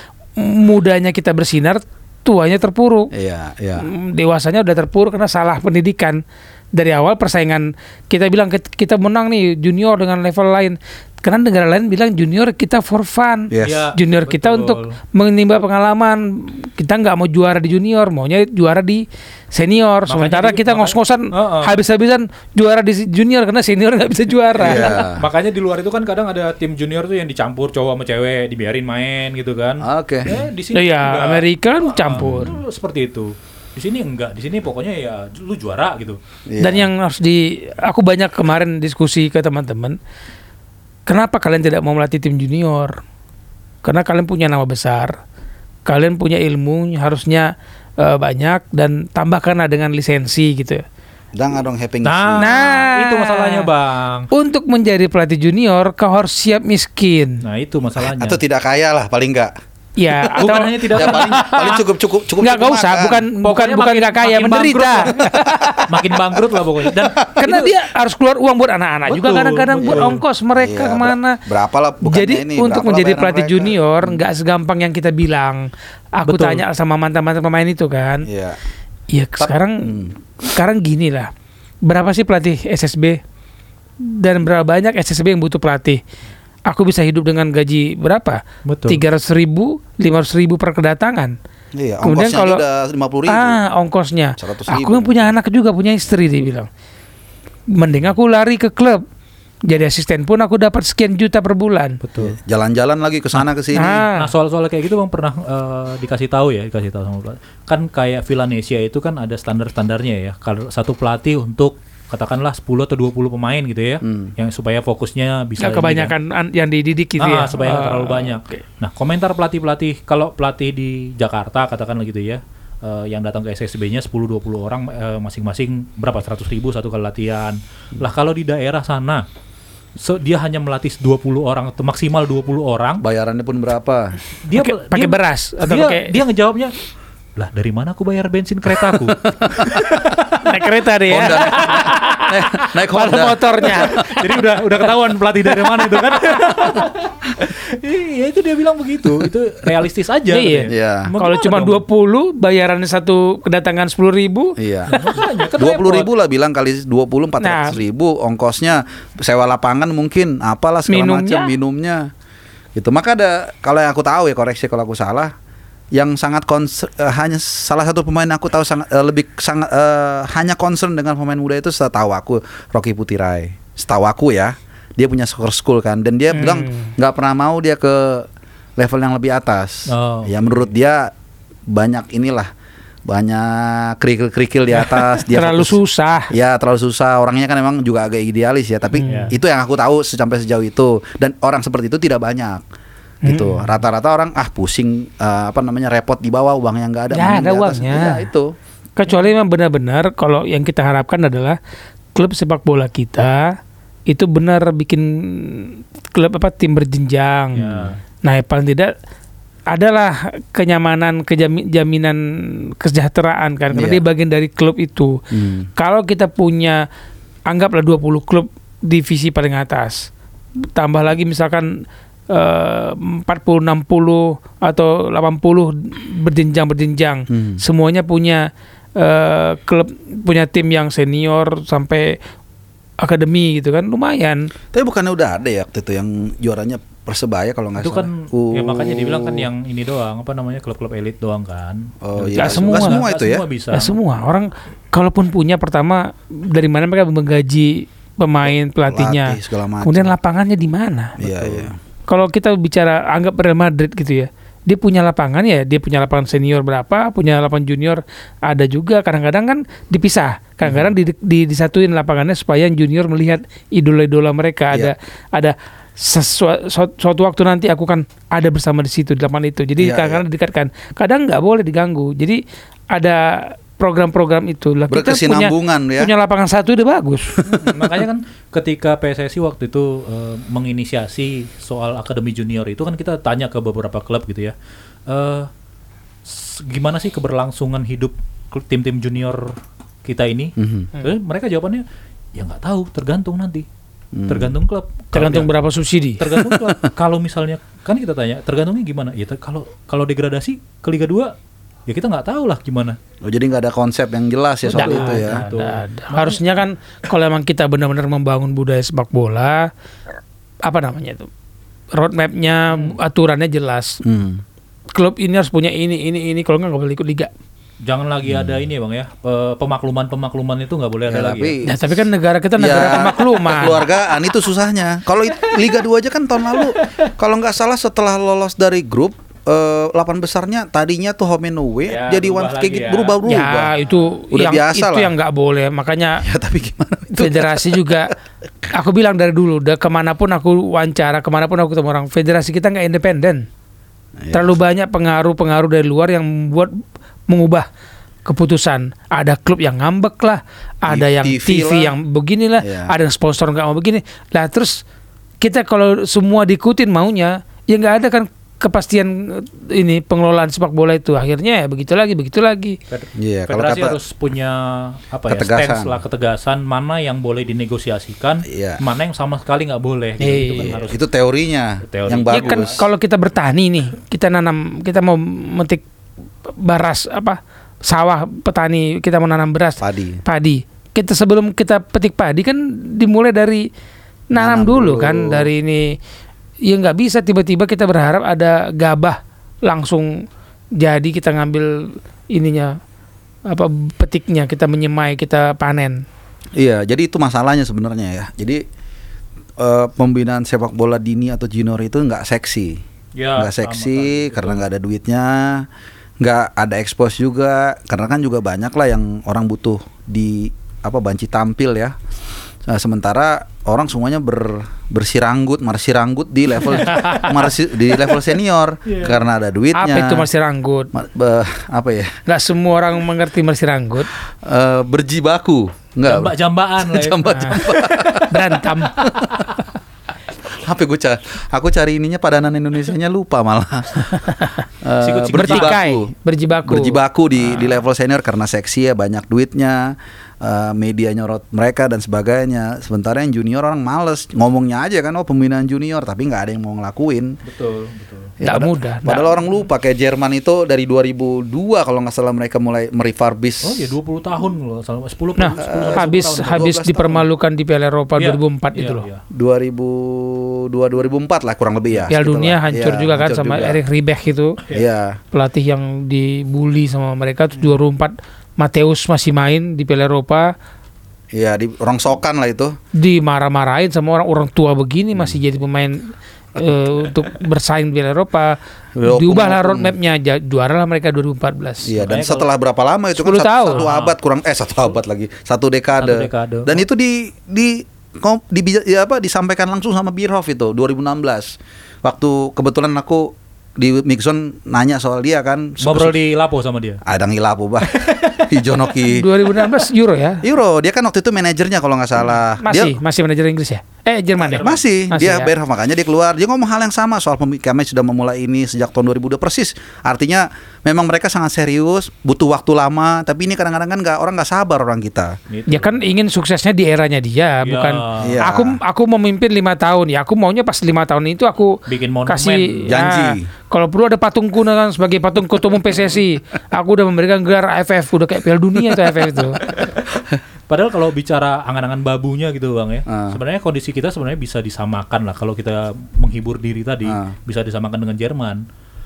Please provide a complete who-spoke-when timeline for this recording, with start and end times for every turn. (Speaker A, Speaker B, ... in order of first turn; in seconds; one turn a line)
Speaker A: 0.4-3.1
Speaker B: 3.1-3.8
Speaker A: 3.8-6.2
Speaker A: 6.7-25.1
Speaker B: 13.5-13.8
Speaker C: 13.6-14.9
Speaker C: 20.1-21.8
Speaker C: 24.6-36.2
Speaker B: 24.6-25.2
Speaker B: 29.8-30.3
Speaker A: 30.7-32.6
Speaker B: 32.2-32.5
Speaker B: 36.5-36.9
Speaker A: 36.6-40.0
Speaker A: 41.1-43.0
Speaker A: 43.8-45.2
Speaker A: 45.9-50.8
Speaker B: 51.3-52.5
Speaker C: 52.0-54.3
Speaker A: 52.4-53.7
Speaker A: 54.3-57.4
Speaker C: 57.4-58.4
Speaker B: 58.0-59.5
Speaker A: 60.0-61.8
Speaker B: 60.1-63.2
Speaker C: 60.4-61.4
Speaker A: 62.4-65.8
Speaker C: 63.4-65.2
Speaker B: 65.2-67.7
Speaker C: 65.8-67.6
Speaker A: 67.4-71.4
Speaker C: 69.1-70.2
Speaker B: 69.1-74.2
Speaker A: 72.0-78.3
Speaker C: 76.2-76.6
Speaker B: 78.2-78.6
Speaker A: 79.1-81.3
Speaker B: 79.4-80.1
Speaker A: 81.8-83.2
Speaker A: 84.0-86.0
Speaker A: 86.7-91.3
Speaker C: 88.7-89.0
Speaker B: 91.7-93.6
Speaker A: 92.0-92.6
Speaker A: 93.3-96.7
Speaker B: 94.4-95.3
Speaker A: 97.7-99.0
Speaker A: 99.7-102.0
Speaker C: 102.0-102.3
Speaker B: 102.2-104.1
Speaker A: 103.7-104.3
Speaker C: 104.1-116.1
Speaker B: 114.0-114.3
Speaker A: 115.6-118.6
Speaker C: 117.2-129.2
Speaker C: 130.0-133.0
Speaker B: 133.0-134.2
Speaker C: 134.4-136.7
Speaker A: 134.5-136.2
Speaker C: 137.3-140.5
Speaker B: 138.9-140.0
Speaker A: 140.4-144.2
Speaker B: 141.1-144.1
Speaker C: 141.2-142.0
Speaker C: 143.7-151.8
Speaker A: 150.3-155.2
Speaker B: 150.7-151.1
Speaker B: 154.6-154.9
Speaker C: 154.9-156.1
Speaker B: 155.6-162.1
Speaker A: 157.4-157.8
Speaker A: 160.9-161.5
Speaker B: 162.7-165.3
Speaker B: 165.9-178.3
Speaker A: 176.3-176.9
Speaker B: 178.8-181.1
Speaker C: 179.9-180.7
Speaker B: 181.7-182.5
Speaker B: 183.1-185.8
Speaker A: 185.2-186.3
Speaker B: 186.3-192.6
Speaker A: 189.0-189.3
Speaker C: 189.0-189.3
Speaker A: 193.2-193.7
Speaker B: 193.2-198.5
Speaker A: 197.1-198.2
Speaker A: 199.0-201.6
Speaker A: 202.1-203.6
Speaker A: 204.1-207.7
Speaker C: 207.5-208.0
Speaker A: 208.2-208.9
Speaker A: 209.7-212.2
Speaker A: 212.8-215.2
Speaker B: 213.7-214.0
Speaker B: 215.3-215.7
Speaker A: 215.8-216.8
Speaker A: 217.5-220.1
Speaker A: 220.7-221.7
Speaker A: 222.3-228.4
Speaker B: 227.3-227.6
Speaker A: 228.9-232.2
Speaker A: 233.0-234.5
Speaker B: 234.7-239.5
Speaker C: 237.8-243.9
Speaker B: 242.0-243.4
Speaker A: 242.4-243.0
Speaker A: 243.7-251.2
Speaker B: 248.4-250.1
Speaker B: 251.2-251.8
Speaker C: 251.2-251.7
Speaker A: 252.1-272.4
Speaker B: 260.6-260.9
Speaker B: 269.8-270.2
Speaker A: 272.9-277.3
Speaker B: 274.9-276.1
Speaker B: 277.3-278.0
Speaker C: 277.5-284.5
Speaker C: 285.1-285.5
Speaker C: 286.2-289.5
Speaker C: 290.1-291.8
Speaker B: 290.6-290.9
Speaker C: 292.4-293.6
Speaker B: 294.1-294.5
Speaker C: 294.3-295.5
Speaker A: 295.1-296.2
Speaker C: 296.2-301.3
Speaker B: 296.4-296.9
Speaker C: 301.9-303.0
Speaker B: 303.2-305.4
Speaker C: 304.7-306.4
Speaker A: 304.7-309.7
Speaker A: 310.6-311.3
Speaker A: 311.9-314.0
Speaker B: 314.0-314.4
Speaker A: 314.9-317.3
Speaker C: 317.9-321.5
Speaker B: 318.3-318.6
Speaker B: 321.1-321.7
Speaker A: 321.6-323.9
Speaker B: 322.6-333.7
Speaker C: 326.5-327.1
Speaker C: 331.9-333.2
Speaker A: 333.2-336.2
Speaker C: 333.7-334.0
Speaker B: 334.3-335.1
Speaker B: 336.2-337.9
Speaker A: 337.2-338.1
Speaker A: 338.7-343.4
Speaker B: 344.2-344.6
Speaker A: 344.3-347.6
Speaker A: 348.2-354.8
Speaker B: 350.9-351.9
Speaker B: 352.6-352.9
Speaker A: 355.4-362.8
Speaker C: 362.9-371.0
Speaker B: 363.2-364.0
Speaker B: 365.3-366.0
Speaker B: 368.5-368.8
Speaker A: 370.2-370.7
Speaker B: 370.3-372.8
Speaker C: 371.8-372.7
Speaker A: 372.3-375.8
Speaker A: 376.5-383.6
Speaker B: 379.8-380.2
Speaker A: 384.3-385.8
Speaker B: 384.3-385.5
Speaker A: 386.7-390.1
Speaker A: 390.8-392.8
Speaker A: 393.5-396.0
Speaker B: 396.6-398.6
Speaker B: 399.6-402.8
Speaker C: 403.1-404.7
Speaker B: 403.4-405.7
Speaker B: 406.2-411.9
Speaker B: 412.6-420.2
Speaker C: 416.6-417.5
Speaker C: 418.8-419.2
Speaker A: 419.7-420.9
Speaker B: 420.9-422.1
Speaker A: 422.3-424.1
Speaker B: 424.4-429.4
Speaker C: 426.0-428.3
Speaker A: 427.3-427.6
Speaker A: 428.1-429.1
Speaker C: 428.9-429.6
Speaker B: 430.5-434.3
Speaker B: 434.8-436.1
Speaker C: 435.0-435.8
Speaker A: 435.3-437.0
Speaker B: 436.6-447.4
Speaker C: 447.4-448.3
Speaker B: 448.4-453.9
Speaker A: 448.4-449.2
Speaker C: 453.6-456.6
Speaker A: 455.4-459.0
Speaker B: 455.6-457.3
Speaker C: 458.2-459.2
Speaker B: 459.3-463.8
Speaker A: 462.1-464.6
Speaker B: 464.7-465.2
Speaker A: 465.3-470.5
Speaker B: 471.3-472.7
Speaker A: 473.0-481.9
Speaker B: 478.9-479.9
Speaker B: 481.8-496.1
Speaker C: 482.0-482.5
Speaker A: 483.2-483.9
Speaker C: 483.7-484.1
Speaker C: 486.0-486.8
Speaker C: 495.8-497.0
Speaker B: 497.0-499.2
Speaker C: 497.9-498.5
Speaker A: 499.1-500.4
Speaker B: 500.4-503.0
Speaker A: 502.6-505.5
Speaker B: 504.4-515.4
Speaker C: 504.5-504.8
Speaker C: 515.5-516.0
Speaker A: 515.7-529.6
Speaker C: 517.6-518.4
Speaker B: 518.2-518.8
Speaker C: 521.9-522.9
Speaker B: 522.9-523.5
Speaker B: 529.6-530.4
Speaker C: 529.7-530.1
Speaker C: 530.7-538.6
Speaker B: 533.1-533.4
Speaker B: 537.1-537.3